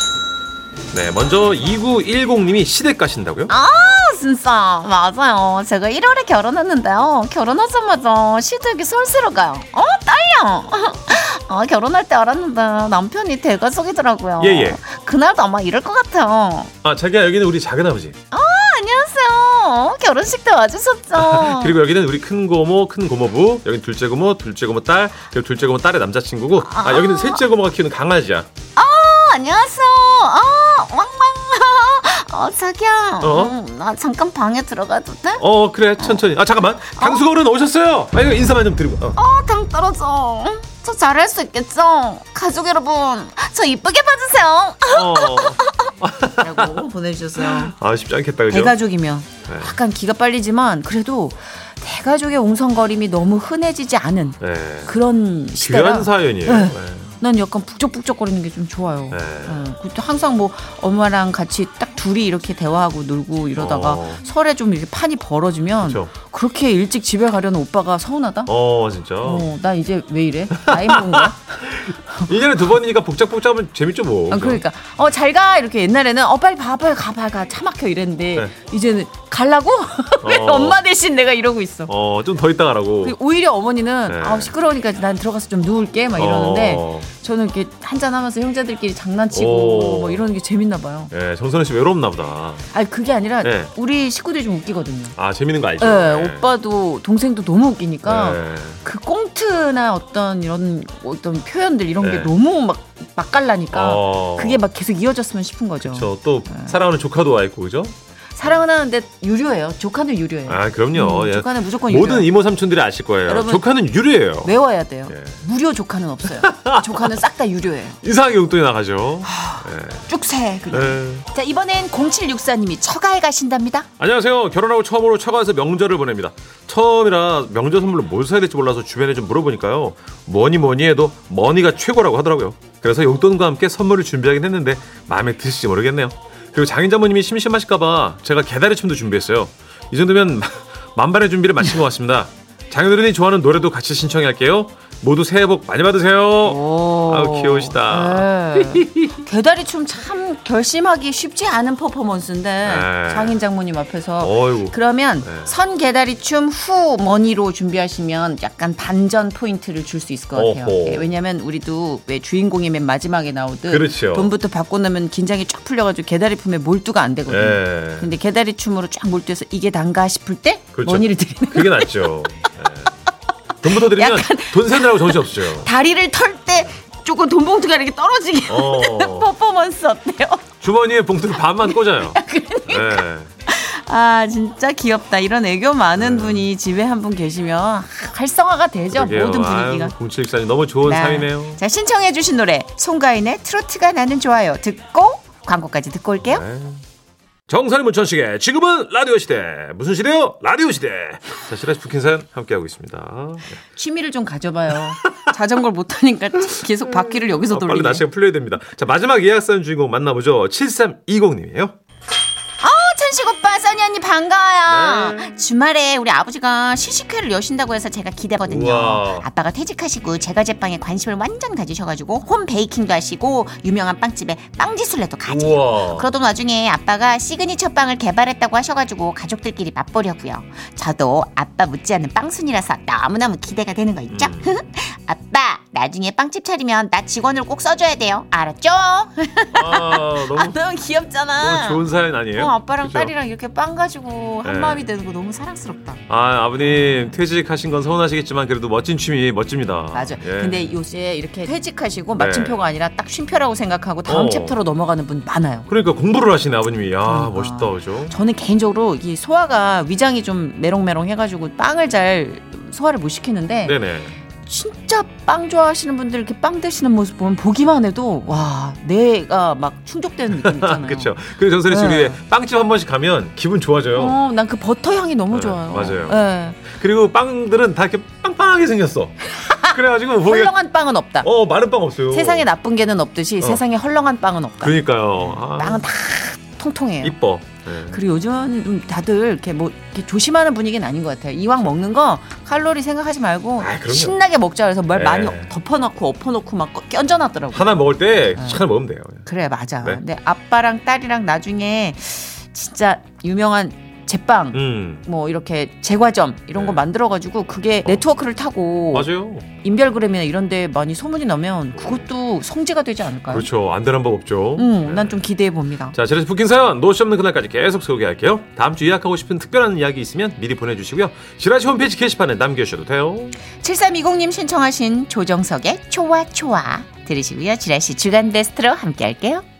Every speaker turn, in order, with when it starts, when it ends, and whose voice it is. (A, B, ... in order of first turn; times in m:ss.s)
0:00.9-0:03.5 A
0:03.5-0:16.7 B
0:14.4-0:14.8 A
0:16.8-0:18.2 A
0:18.3-0:21.8 B
0:21.1-0:28.5 A
0:26.6-0:27.4 B
0:28.8-0:35.4 B
0:33.2-0:33.6 A
0:35.4-0:39.2 A
0:36.9-0:37.2 B
0:39.2-0:47.7 B
0:44.9-0:46.9 A
0:47.4-0:48.8 A
0:48.5-1:08.5 B
0:49.5-0:49.8 A
0:54.4-0:55.0 A
0:55.6-0:57.2 A
0:59.1-0:59.6 A
1:03.6-1:04.2 A
1:05.8-1:06.1 A
1:08.4-1:09.5 A
1:09.2-1:12.3 B
1:10.5-1:14.6 A
1:14.3-1:21.9 B
1:20.2-1:20.8 A
1:21.9-1:23.2 A
1:23.0-1:31.1 B
1:24.1-1:24.5 A
1:26.2-1:27.1 A
1:29.3-1:30.3 A
1:31.1-1:32.7 A
1:32.7-1:35.2 B
1:33.4-1:33.7 A
1:35.2-1:36.5 A
1:35.8-1:46.7 B
1:38.0-1:38.8 A
1:42.0-1:42.3 A
1:43.7-1:44.6 A
1:45.8-1:48.6 A
1:48.3-1:52.3 B
1:50.5-1:54.6 A
1:53.3-1:53.6 B
1:54.4-1:58.0 B
1:55.1-1:55.4 A
1:56.3-1:57.2 A
1:58.0-2:00.1 A
1:59.2-2:03.9 B
2:00.7-2:01.2 A
2:04.0-2:29.1 A
2:26.4-2:52.5 B
2:32.6-2:33.4 A
2:34.2-2:35.5 A
2:40.3-2:41.1 A
2:43.7-2:44.3 A
2:47.3-2:48.1 A
2:50.7-2:52.9 A
2:53.6-2:55.7 A
2:53.7-3:00.4 B
2:58.5-2:59.3 A
3:00.6-3:03.3 A
3:01.6-3:09.9 B
3:06.0-3:06.5 A
3:08.9-3:11.6 A
3:10.8-3:16.4 B
3:16.2-3:16.8 A
3:17.5-3:23.6 A
3:23.7-3:28.0 B
3:27.0-3:31.8 A
3:32.6-4:01.8 B
3:34.7-3:35.3 A
3:38.4-3:39.3 A
3:45.2-3:46.1 A
3:54.1-3:54.6 A
3:59.6-4:00.6 A
4:01.4-4:03.1 A
4:02.4-4:06.0 B
4:04.4-4:04.8 A
4:06.1-4:10.7 A
4:09.9-4:15.7 B
4:12.2-4:12.6 A
4:14.1-4:14.6 A
4:15.7-4:18.2 A
4:17.0-4:23.7 B
4:23.7-4:24.2 A
4:24.4-4:31.1 B
4:30.4-4:34.2 A
4:31.7-4:32.2 B
4:34.0-4:36.6 B
4:35.3-4:39.2 A
4:39.2-4:41.3 B
4:39.7-4:40.5 A
4:41.2-4:42.5 A
4:42.1-4:47.2 B
4:44.6-4:45.8 A
4:47.0-4:48.0 A
4:47.9-4:57.8 B
4:53.6-4:54.2 A
4:54.9-4:55.5 A
4:57.5-4:59.3 A
4:58.4-4:58.6 B
4:59.3-5:09.1 B
5:04.5-5:05.0 A
5:06.6-5:06.8 A
5:08.9-5:09.5 A
5:09.6-5:13.5 B
5:11.7-5:12.1 A
5:13.3-5:15.2 A
5:14.6-5:16.0 B
5:15.9-5:23.4 A
5:23.6-5:29.4 B